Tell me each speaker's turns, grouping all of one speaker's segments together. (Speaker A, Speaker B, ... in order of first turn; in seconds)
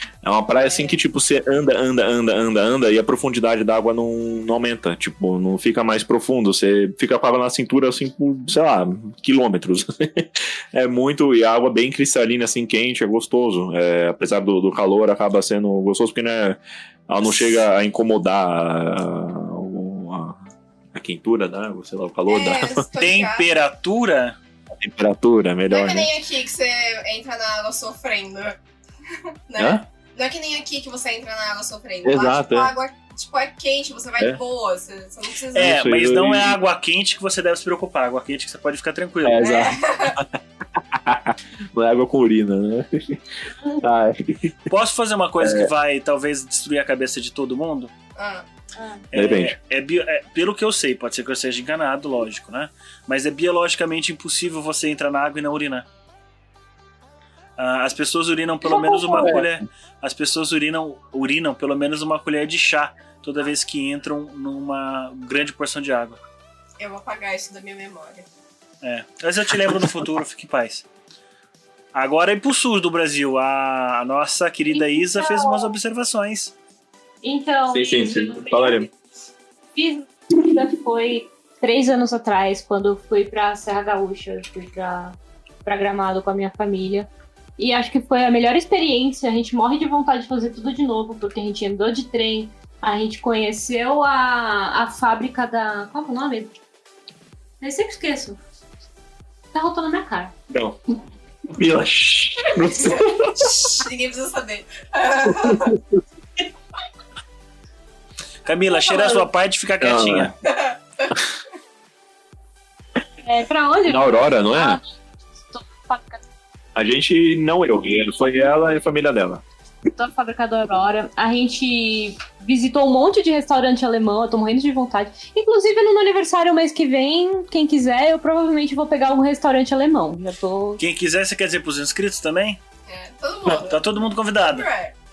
Speaker A: 0.2-20.4, 20.9-22.9, 24.7-26.1, 29.6-29.9, 32.0-32.7, 35.6-36.6, 39.2-43.2, 43.8-44.7, 45.4-45.7, 49.1-49.6, 59.1-59.5, 77.7-78.9, 100.5-100.8, 101.5-103.7, 105.4-105.8, 109.8-110.3, 113.9-114.8, 116.8-119.4
Speaker B: 22.3-23.6, 25.7-28.6, 29.5-35.8, 39.4-40.2, 48.2-48.5, 66.8-68.3, 102.8-105.8, 110.5-111.1, 132.9-134.9
Speaker C: 23.0-24.4, 35.5-39.4, 44.7-47.9, 49.1-55.9, 57.6-66.2, 68.8-70.8, 71.9-76.5, 108.5-110.3, 130.8-132.6, 133.7-134.7
Speaker D: 48.8-49.0, 58.7-59.4, 74.7-75.7, 77.2-78.9, 79.8-96.5, 97.6-98.4, 99.5-100.3, 108.7-109.3, 113.2-114.8, 115.5-116.2, 120.0-130.8